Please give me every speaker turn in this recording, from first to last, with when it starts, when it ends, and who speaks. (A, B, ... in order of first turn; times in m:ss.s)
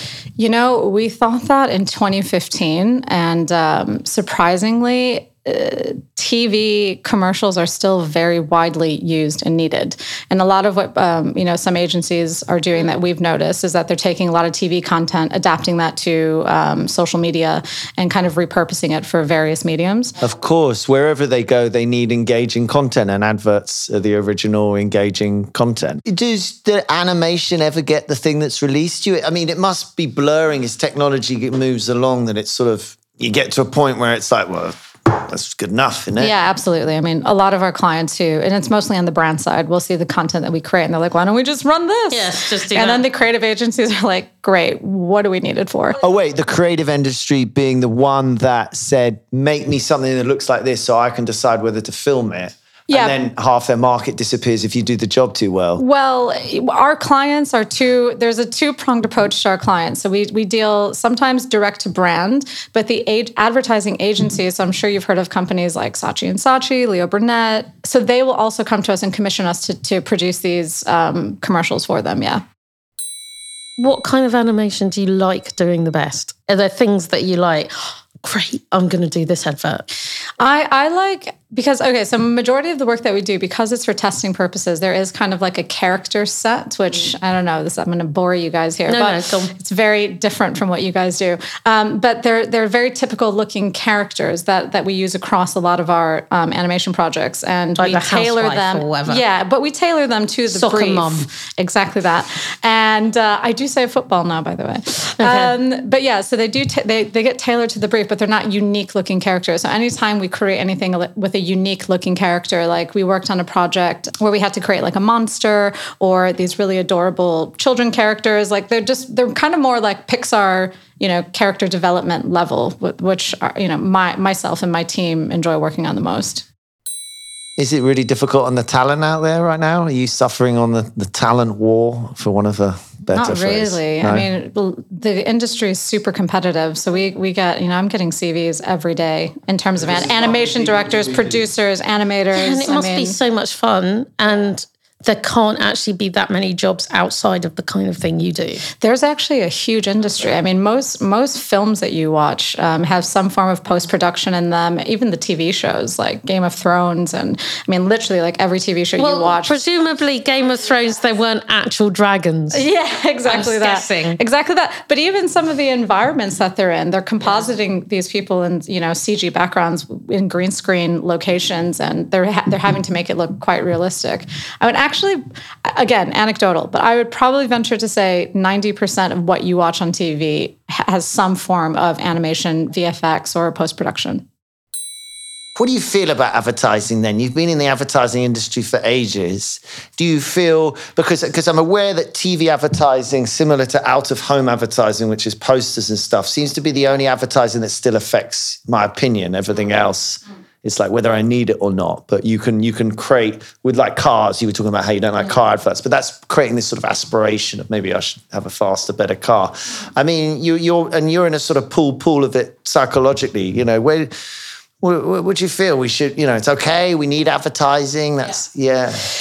0:00.4-0:20.2 A
0:20.2-0:36.3 B
0:36.2-0:46.0 A
0:42.1-0:43.0 C
0:46.0-0:55.8 B
0:52.9-0:53.2 A
0:55.8-1:12.4 A
1:13.8-1:19.8 C
1:20.4-2:06.4 A
1:28.9-1:29.5 C
1:37.8-1:39.2 C
1:40.5-1:41.3 C
1:45.2-1:45.5 C
2:07.6-2:14.3 B
2:13.1-2:23.2 A
2:19.8-2:21.5 B
2:22.3-2:28.6 C
2:28.8-2:39.6 A
2:39.0-2:42.6 C
2:42.5-3:04.2 A
2:43.2-2:44.2 C
3:05.6-3:34.1 B
3:34.8-3:39.0 B